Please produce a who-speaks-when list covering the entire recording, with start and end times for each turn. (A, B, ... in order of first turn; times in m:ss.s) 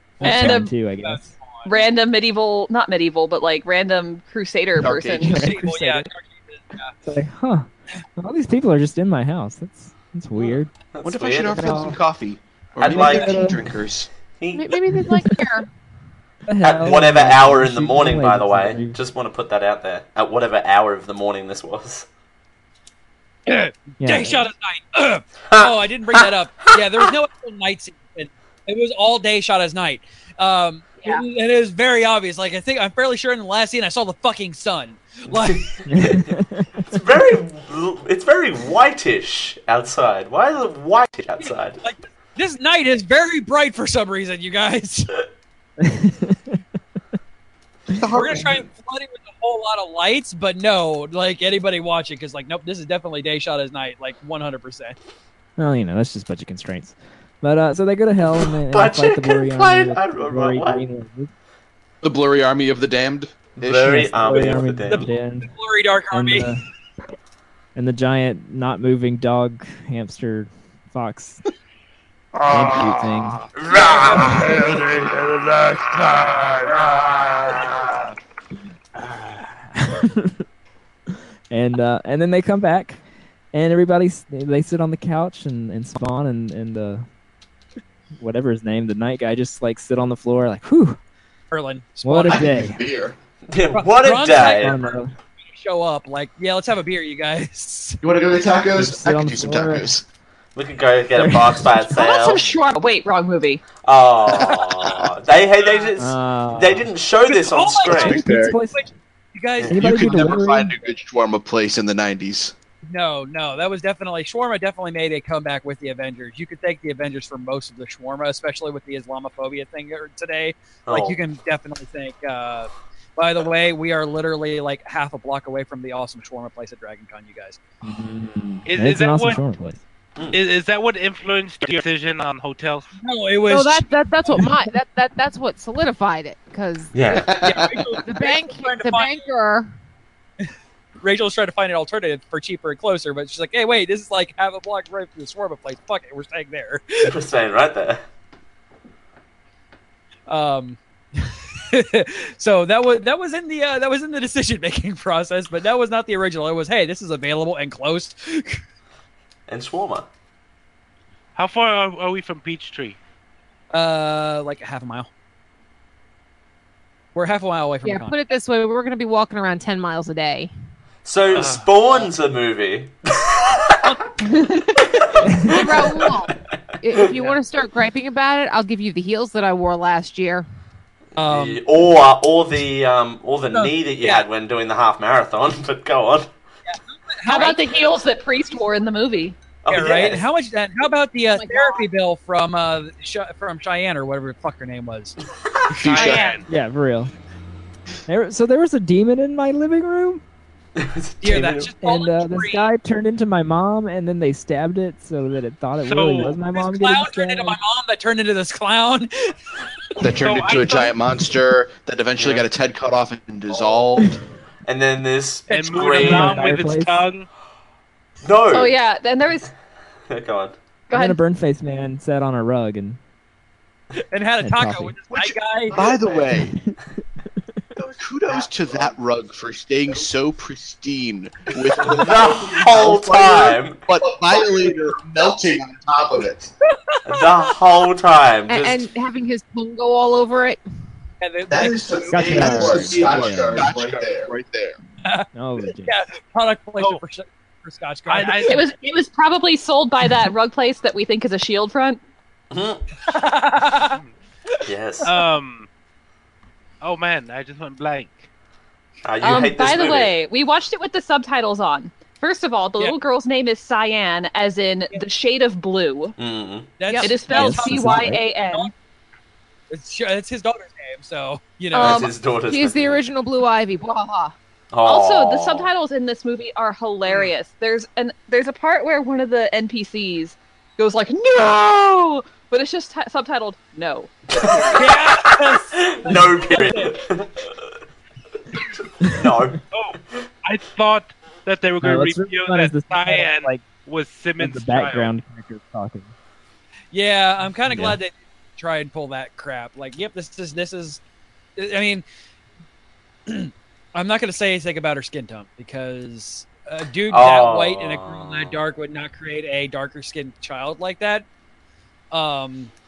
0:00.2-0:01.3 A
0:00.2-0:01.8 B
0:00.2-0:00.7 C
0:01.6-0:05.4 C
0:04.8-0:05.5 D
0:05.1-0:06.1 A
0:05.2-0:06.9 B
0:07.0-0:10.7 A
0:10.9-0:11.9 E
0:11.0-0:14.1 D
0:11.5-0:12.0 A
0:12.8-0:13.4 E
0:12.9-0:13.6 A
0:14.4-0:15.0 E
0:14.5-0:15.7 F
0:16.4-0:19.0 A
0:16.6-0:22.0 E
0:23.5-0:35.6 B
0:24.0-0:24.4 A
0:35.3-0:36.4 E
0:35.9-0:37.0 A
0:36.9-0:41.8 E
0:41.4-0:45.1 B
0:45.8-0:46.6 A
0:47.9-0:48.6 D
0:48.1-0:55.0 B
0:55.6-1:01.3 A
0:58.7-1:00.8 E
1:02.0-1:04.5 D
1:03.6-1:05.1 E
1:03.7-1:05.5 A
1:04.9-1:06.5 B
1:06.1-1:06.6 A
1:07.7-1:11.4 A
1:12.5-1:13.5 A
1:13.7-1:14.4 B
1:14.1-1:14.4 A
1:19.0-1:20.4 A
1:21.5-1:23.0 A
1:23.5-1:27.0 A
1:28.1-1:31.0 A
1:31.5-1:32.5 B
1:32.0-1:32.8 A
1:32.3-1:33.1 D
1:33.5-1:34.8 E
1:33.7-1:34.8 B
1:34.3-1:35.1 A
1:35.4-1:38.0 B
1:38.0-1:40.0 D
1:38.7-1:39.9 A
1:40.6-1:42.4 E
1:41.2-1:41.8 A
1:41.9-1:43.6 C
1:43.8-1:48.2 E
1:46.0-1:46.9 A
1:47.3-1:50.2 B
1:47.9-1:48.9 A
1:48.0-1:48.6 D
1:49.7-1:50.7 A
1:49.7-1:52.5 D
1:52.8-2:07.6 B
2:00.9-2:01.2 E
2:07.8-2:09.8 A
2:08.6-2:09.4 G
2:10.3-2:12.9 G
2:13.0-2:14.5 B
2:13.5-2:16.9 F
2:16.9-2:17.3 E
2:17.1-2:17.7 D
2:17.4-2:19.2 B
2:18.0-2:19.7 F
2:21.0-2:27.1 B
2:27.0-2:28.0 E
2:30.3-2:38.6 B
2:39.5-2:40.0 E
2:41.3-2:43.0 G
2:43.7-2:45.1 B
2:47.1-2:48.2 B
2:47.8-2:50.5 F
2:51.0-2:53.8 E
2:51.3-2:52.0 G
2:54.2-2:54.7 C
2:55.2-2:56.2 E
2:55.4-3:00.4 F
3:01.2-3:01.6 B
3:01.2-3:06.3 E
3:03.5-3:04.2 B
3:06.6-3:07.6 B
3:07.2-3:09.4 C
3:09.6-3:10.2 E
3:09.7-3:15.2 B
3:11.3-3:11.8 F
3:15.7-3:16.2 B
3:15.8-3:16.4 D
3:15.8-3:16.5 G
3:16.0-3:16.4 C
3:16.5-3:17.1 A
3:18.1-3:20.2 A
3:20.8-3:21.7 E
3:21.2-3:22.7 B
3:21.8-3:27.6 A
3:25.8-3:26.4 G
3:26.5-3:29.3 B
3:30.0-3:34.2 D
3:30.2-3:30.9 G
3:34.6-3:36.6 E
3:35.5-3:37.3 G
3:35.9-3:37.0 A
3:38.2-3:38.8 E
3:38.5-3:39.5 C
3:40.1-3:40.5 E
3:40.9-3:41.2 C
3:40.9-3:43.0 A
3:44.1-3:45.8 B
3:44.4-3:45.0 A
3:45.1-3:46.6 D
3:46.2-3:47.4 A
3:47.8-3:56.5 D
3:51.8-3:53.8 E
3:56.9-3:57.3 B
3:57.0-3:58.9 E
3:58.5-4:00.6 F
4:01.2-4:02.2 B
4:01.5-4:04.8 D
4:02.1-4:03.6 A
4:05.3-4:05.9 A
4:05.8-4:08.7 B
4:08.1-4:08.6 G
4:08.4-4:12.0 C
4:12.5-4:12.8 E
4:13.1-4:14.0 B
4:14.5-4:15.2 B
4:14.6-4:15.1 E
4:15.0-4:15.7 G
4:16.8-4:18.3 G
4:19.0-4:20.1 E
4:19.2-4:26.2 C
4:26.2-4:26.7 E
4:26.8-4:28.7 B
4:26.9-4:28.7 C
4:27.3-4:28.2 A
4:29.7-4:32.1 B
4:31.8-4:33.0 E
4:31.8-4:34.3 F
4:34.7-4:35.7 E
4:34.8-4:44.1 C
4:44.3-4:44.8 E
4:44.6-4:46.9 B
4:45.7-4:47.5 E
4:48.8-4:49.6 E
4:49.1-4:49.4 A
4:49.7-4:55.1 G
4:51.8-4:53.6 A
4:54.4-4:56.1 A
4:56.9-5:01.0 B
4:57.7-4:58.0 A
5:01.6-5:02.0 B
5:03.3-5:11.3 B
5:07.1-5:08.6 E
5:12.1-5:12.7 B